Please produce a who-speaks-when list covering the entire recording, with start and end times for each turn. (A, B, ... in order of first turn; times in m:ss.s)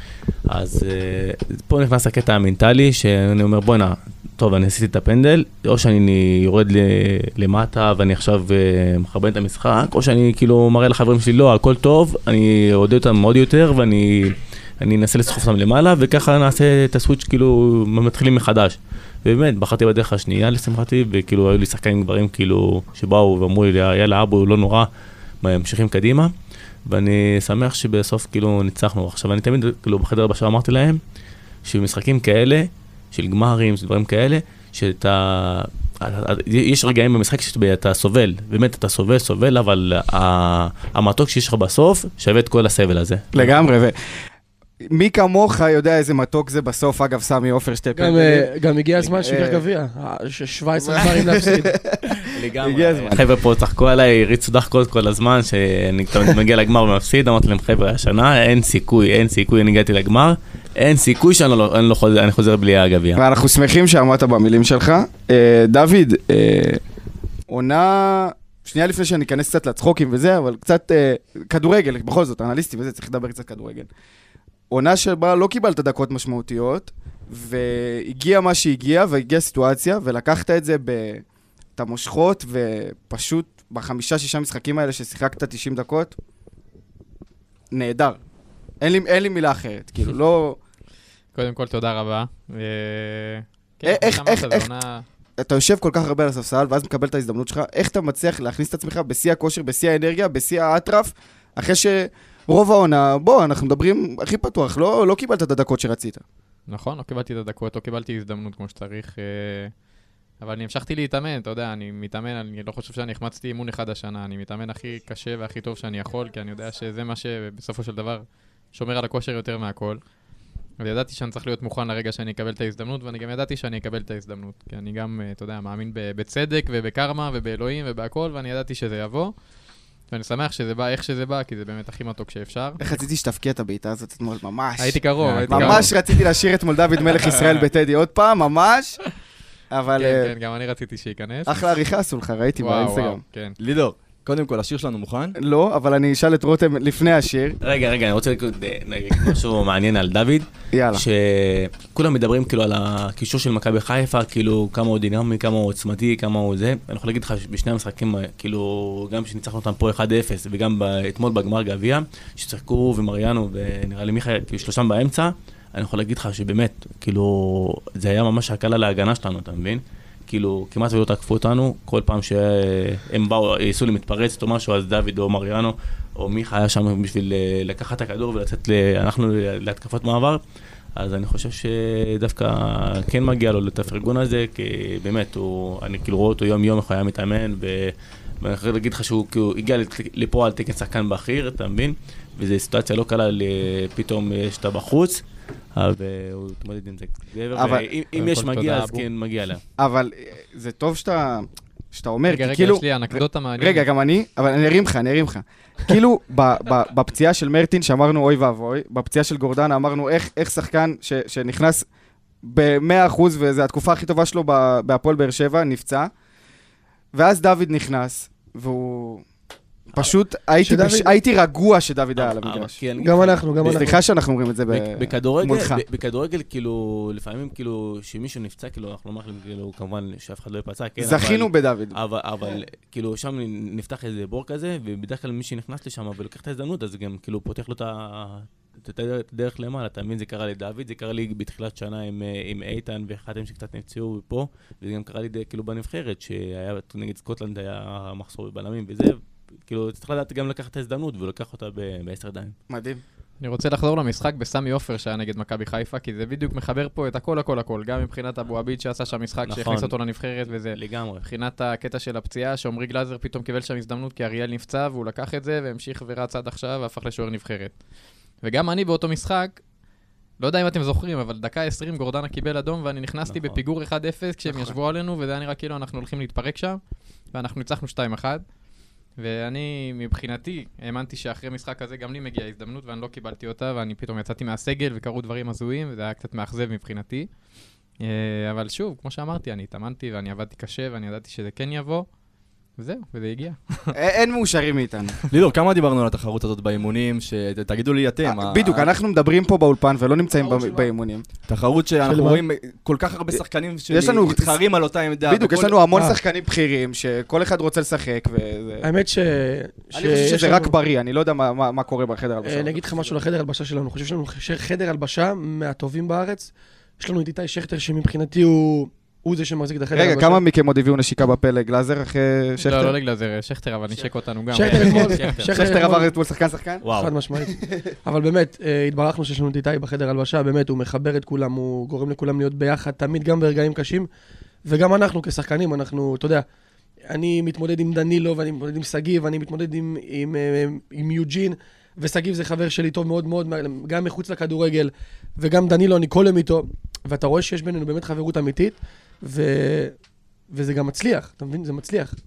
0:00.5-0:24.9 A
0:25.4-0:26.3 A
0:26.9-0:31.0 A
0:31.6-0:43.5 A
0:43.3-0:44.0 B
0:44.9-0:48.5 B
0:48.0-0:51.7 C
0:49.2-0:49.6 B
0:50.8-0:53.2 B
0:52.3-1:03.2 A
1:03.2-1:06.8 B
1:07.5-1:13.9 B
1:14.7-1:21.2 B
1:21.8-1:26.1 B
1:27.7-1:28.2 B
1:28.8-1:30.6 B
1:31.3-1:35.0 D
1:33.8-1:34.7 B
1:35.4-1:46.2 B
1:46.7-1:49.7 D
1:50.4-2:00.0 D
2:00.8-2:09.3 D
2:10.1-2:12.8 D
2:12.8-2:19.0 B
2:14.8-2:16.0 D
2:15.2-2:15.6 A
2:19.7-2:20.3 B
2:20.0-2:21.6 D
2:21.4-2:23.2 B
2:22.6-2:23.6 D
2:23.6-2:25.3 E
2:25.4-2:27.6 B
2:27.6-3:00.4 A
2:30.7-2:31.0 B
3:01.0-3:15.2 A
3:15.8-3:19.6 A
3:17.5-3:17.8 B
3:18.2-3:19.0 D
3:19.8-3:31.9 B
3:22.3-3:23.8 D
3:32.4-3:36.1 B
3:37.1-3:39.2 B
3:39.9-3:42.8 B
3:40.6-3:41.2 C
3:42.2-3:43.9 A
3:43.0-3:44.0 C
3:43.6-3:45.8 B
3:44.7-4:12.5 A
3:51.0-3:52.0 B
4:12.7-4:13.0 B
4:13.4-4:27.7 D
4:19.4-4:19.9 A
4:20.7-4:21.3 A
4:28.4-4:29.6 D
4:30.4-4:36.8 D
4:33.3-4:33.6 A
4:34.4-4:34.8 B
4:37.3-4:38.4 D
4:39.2-4:47.3 D
4:48.0-4:52.1 D
4:52.8-4:53.9 D
4:53.9-4:55.2 B
4:55.3-4:58.9 E
4:58.2-5:01.3 B
5:00.4-5:00.9 C
5:01.4-5:05.8 E
5:02.0-5:02.4 C
5:03.9-5:04.6 B
5:05.2-5:08.9 B
5:08.8-5:10.8 C
5:09.9-5:12.9 B
5:12.4-5:20.4 C
5:19.9-5:23.0 B
5:22.6-5:25.3 D
5:24.5-5:26.1 C
5:24.6-5:25.6 A
5:25.4-5:26.8 B
5:26.8-5:27.1 A
5:26.9-5:34.1 C
5:34.6-5:36.4 C
5:37.1-5:50.0 C
5:50.5-5:52.2 C